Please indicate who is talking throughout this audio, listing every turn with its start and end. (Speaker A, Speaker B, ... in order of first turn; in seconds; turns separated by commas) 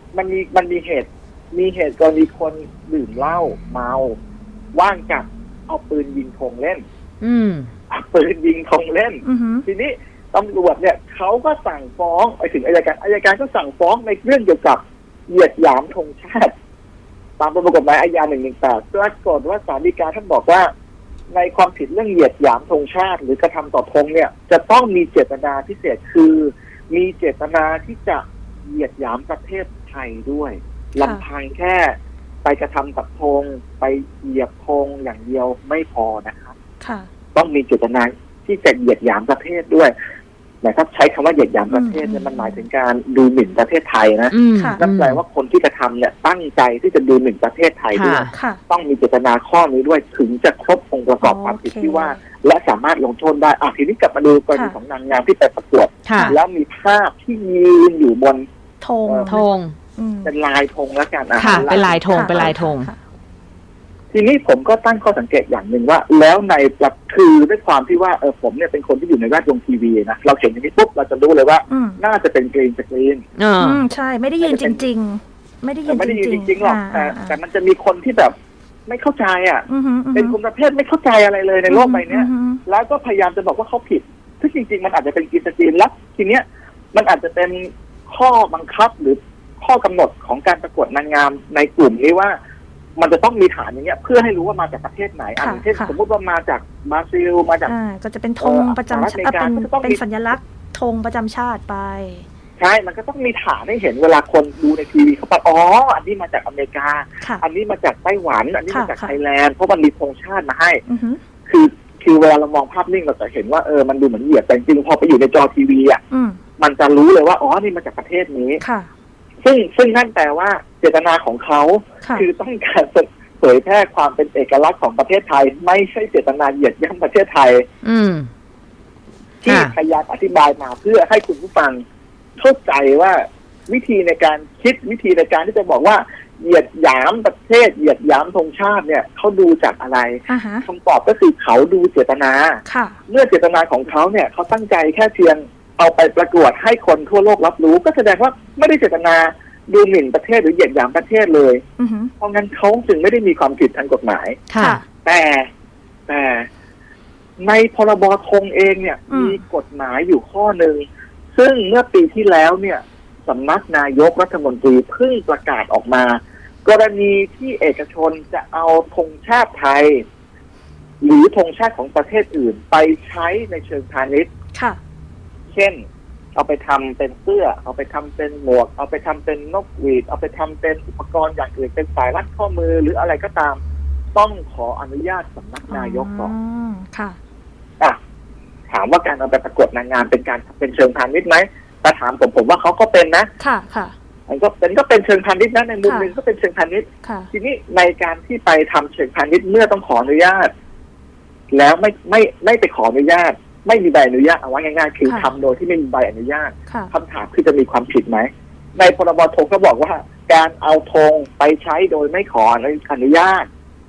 Speaker A: 0.1-4.2, Speaker A: 4.7-6.8, Speaker B: 7.2-7.7, Speaker A: 7.9-16.5, Speaker C: 9.2-9.7, Speaker A: 17.4-20.7, Speaker A: 21.3-36.5, Speaker C: 36.8-37.1, Speaker A: 37.3-39.9, Speaker A: 40.6-58.5, Speaker C: 41.7-42.6, Speaker B: 44.3-45.2, Speaker B: 47.9-48.3, Speaker C: 48.3-48.6, Speaker C: 51.2-52.2, Speaker B: 56.1-56.4, Speaker C: 58.8-59.5, Speaker A: 59.1-59.4, Speaker B: 59.3-59.8, Speaker C: 60.0-60.3, Speaker A: 60.2-62.6, Speaker B: 61.4-62.9, Speaker C: 61.5-63.0, Speaker A: 64.1-73.2, Speaker C: 71.7-72.0, Speaker B: 73.4-73.8, Speaker C: 73.6-77.4, Speaker A: 74.4-74.8, Speaker A: 75.9-78.3, Speaker A: 78.9-92.4, Speaker C: 79.7-80.4, Speaker C: 81.7-82.6, Speaker A: 93.0-97.8, Speaker C: 95.4-96.0, Speaker C: 97.7-102.3, Speaker A: 98.4-100.0, Speaker A: 102.6-110.8, Speaker C: 108.7-109.2, Speaker C: 110.9-111.2, Speaker A: 111.5-116.0, Speaker C: 116.1-116.4, Speaker A: 116.6-118.6, Speaker C: 118.6-118.9, Speaker A: 119.4-127.7, Speaker B: 127.8-128.3, Speaker A: 129.4-131.8, Speaker B: 129.5-129.7, Speaker A: 132.4-151.6, Speaker C: 140.3-140.7, Speaker C: 142.7-143.0, Speaker C: 151.8-152.1, Speaker A: 152.2-154.4, Speaker B: 154.5-154.8, Speaker C: 154.6-154.8, Speaker A: 155.0-155.5, Speaker A: 156.1-156.5, Speaker A: 157.4-170.0, Speaker C: 159.1-159.4, Speaker A: 171.0-174.3, Speaker C: 174.5-174.8, Speaker A: 175.5-175.8, Speaker A: 176.3-183.6, Speaker A: 184.2-186.3, Speaker C: 185.7-187.2, Speaker A: 188.7-193.3, Speaker C: 193.4-193.9, Speaker A: 194.3-200.5, Speaker C: 195.8-196.1, Speaker C: 197.0-197.3, Speaker A: 201.5-213.5, Speaker C: 205.1-205.3